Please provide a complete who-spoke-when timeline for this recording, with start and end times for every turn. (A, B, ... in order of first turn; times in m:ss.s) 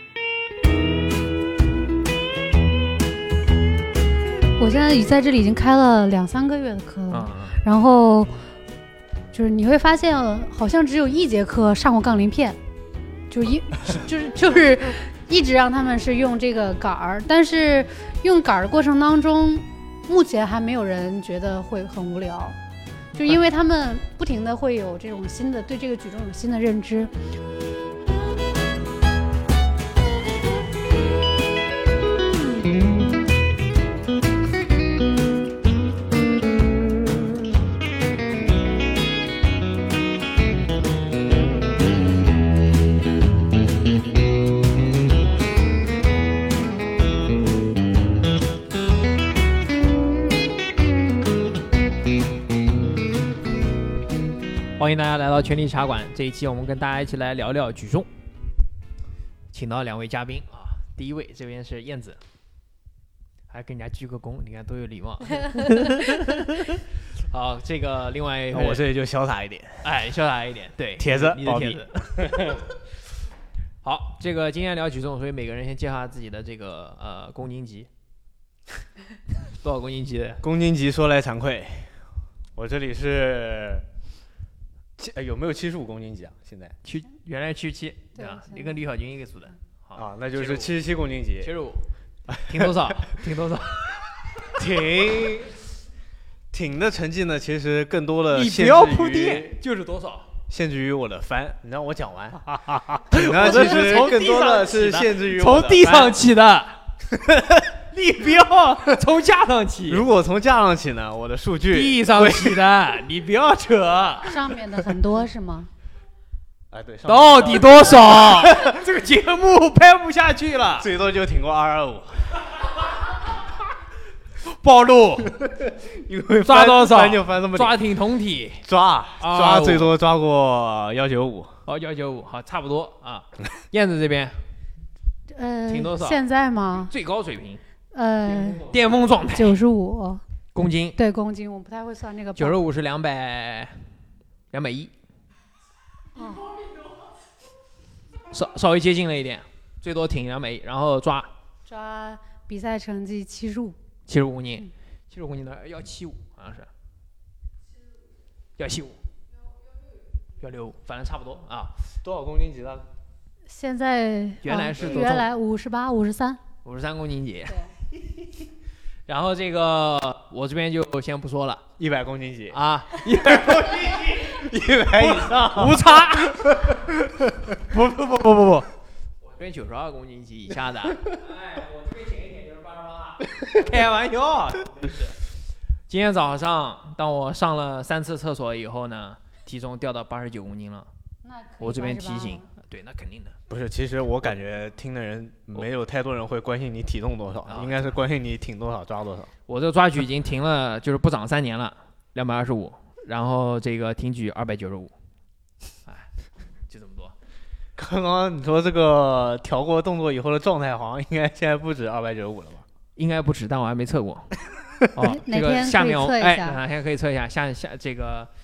0:04.6-0:08.3 A
0:07.1-0:07.6 B
0:09.3-0:12.6 A
0:13.3-0:22.6 A
0:23.2-0:27.1 A
0:54.8-0:58.1 B
0:59.5-1:02.2 B
1:03.5-1:08.8 B
1:08.5-1:09.9 C
1:09.8-1:12.8 B
1:11.0-1:12.6 C
1:13.8-1:17.9 B
1:19.4-1:20.4 B
1:20.4-1:22.0 C
1:22.6-1:23.8 C
1:25.0-1:26.8 C
1:26.8-1:30.8 B
1:28.2-1:28.8 A
1:29.9-1:31.5 C
1:31.4-1:31.8 B
1:32.3-1:33.0 C
1:32.5-1:34.6 B
1:34.5-1:35.5 C
1:36.5-1:39.6 C
1:38.3-1:40.3 B
1:40.5-1:42.5 C
1:42.5-1:46.8 B
1:43.1-1:46.2 C
1:47.1-1:47.7 C
1:47.9-1:50.1 B
1:49.9-1:52.6 C
1:51.7-1:54.5 B
1:54.2-1:55.7 A
1:56.7-1:58.7 C
1:57.1-2:00.9 B
2:00.8-2:02.4 C
2:02.9-2:03.5 B
2:04.4-2:05.4 B
2:05.4-2:07.8 C
2:06.4-2:08.6 B
2:08.6-2:11.6 C
2:09.2-2:09.9 B
2:11.7-2:14.4 B
2:15.3-2:16.9 A
2:15.7-2:16.2 B
2:16.9-2:17.6 B
2:17.9-2:18.6 A
2:18.6-2:19.6 B
2:19.3-2:20.2 A
2:20.5-2:21.0 B
2:21.0-2:22.6 A
2:22.4-2:23.9 B
2:24.5-2:24.9 B
2:26.1-2:26.5 A
2:28.3-2:31.3 B
2:31.6-2:33.8 A
2:34.1-2:36.7 B
2:38.6-2:39.0 B
2:40.4-2:41.7 B
2:42.0-2:42.8 C
2:43.4-2:46.4 A
2:44.4-2:45.3 B
2:46.6-2:47.6 B
2:49.1-2:51.6 B
2:51.8-2:52.6 C
2:52.5-2:56.8 B
2:53.2-2:57.5 C
2:57.6-2:58.7 B
2:59.2-3:05.2 B
3:05.9-3:10.9 B
3:11.2-3:12.5 A
3:11.6-3:13.4 B
3:13.5-3:19.3 C
3:17.5-3:17.8 B
3:19.5-3:24.9 B
3:26.7-3:27.1 B
3:27.8-3:32.6 C
3:33.0-3:34.4 B
3:34.9-3:38.3 B
3:35.0-3:36.6 A